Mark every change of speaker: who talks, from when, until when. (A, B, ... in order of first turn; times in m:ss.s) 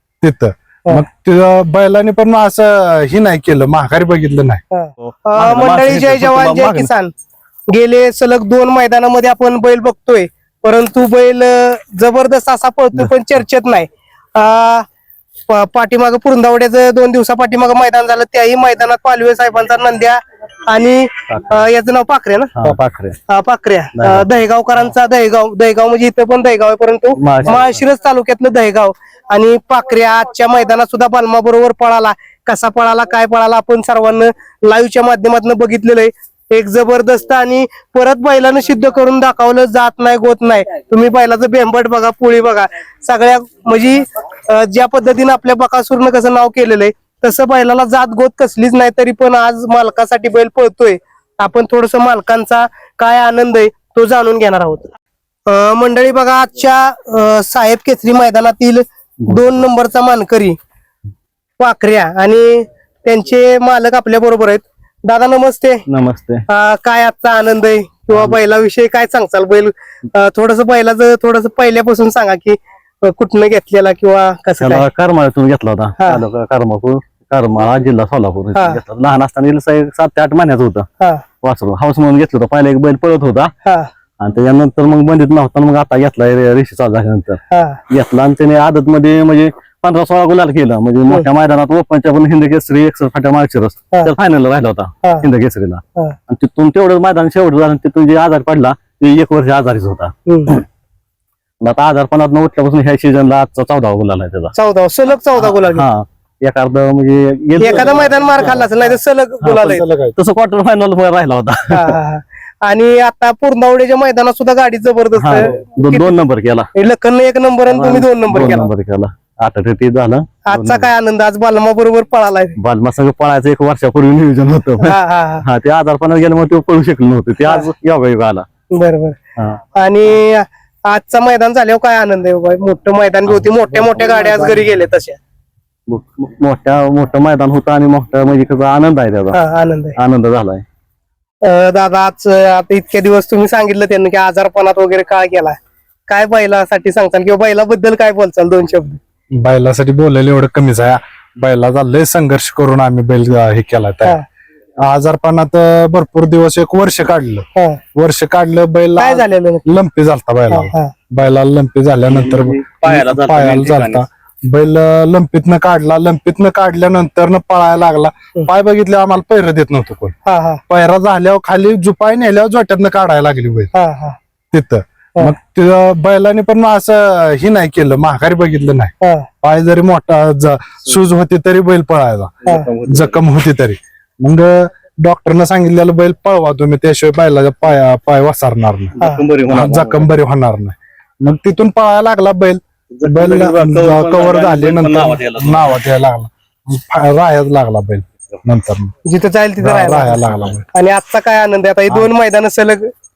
0:00.2-0:04.6 A
0:04.7-0:07.1 B
0:05.0-0:06.9 C
0:07.7-0:14.9 B
0:15.5-0:20.2 B
0:20.7-0:22.6 B
0:21.3-0:21.6 C
0:22.6-0:23.2 C
0:23.3-0:54.9 B
0:24.0-0:24.3 C
0:27.2-0:27.8 C
0:55.5-1:00.6 B
0:59.3-0:59.6 C
1:01.6-1:05.8 B
1:05.9-1:06.4 C
1:06.5-1:14.9 B
1:08.1-1:08.4 C
1:14.6-1:20.9 C
1:16.0-1:16.2 B
1:18.6-1:18.8 B
1:21.4-1:23.5 C
1:23.6-1:23.9 B
1:24.2-1:40.6 C
1:27.5-1:27.8 B
1:40.3-1:40.6 B
1:41.6-1:44.5 C
1:44.6-1:45.9 B
1:45.4-1:48.7 C
1:47.6-1:49.8 B
1:49.4-1:51.9 C
1:49.6-1:50.2 A
1:51.7-1:56.2 B
1:55.2-1:56.7 C
1:56.7-1:58.7 B
1:57.7-2:00.9 C
2:00.5-2:02.6 B
2:02.6-2:08.4 C
2:04.8-2:05.4 B
2:08.7-2:09.2 B
2:09.7-2:15.2 B
2:13.3-2:14.6 C
2:15.9-2:19.4 C
2:19.3-2:20.0 B
2:20.0-2:20.6 C
2:21.4-2:25.5 B
2:26.1-2:29.0 B
2:29.3-2:34.2 A
2:34.8-2:50.1 A
2:37.5-2:37.8 B
2:39.0-2:39.7 B
2:40.5-2:40.9 B
2:42.1-2:44.0 C
2:50.2-2:50.6 B
2:50.7-2:53.7 A
2:53.7-2:54.2 B
2:54.5-3:02.3 A
2:59.0-2:59.3 B
3:02.4-3:03.2 C
3:02.9-3:09.0 A
3:09.0-3:10.2 C
3:09.5-3:18.9 A
3:12.9-3:15.8 C
3:19.0-3:22.9 B
3:19.6-3:20.7 A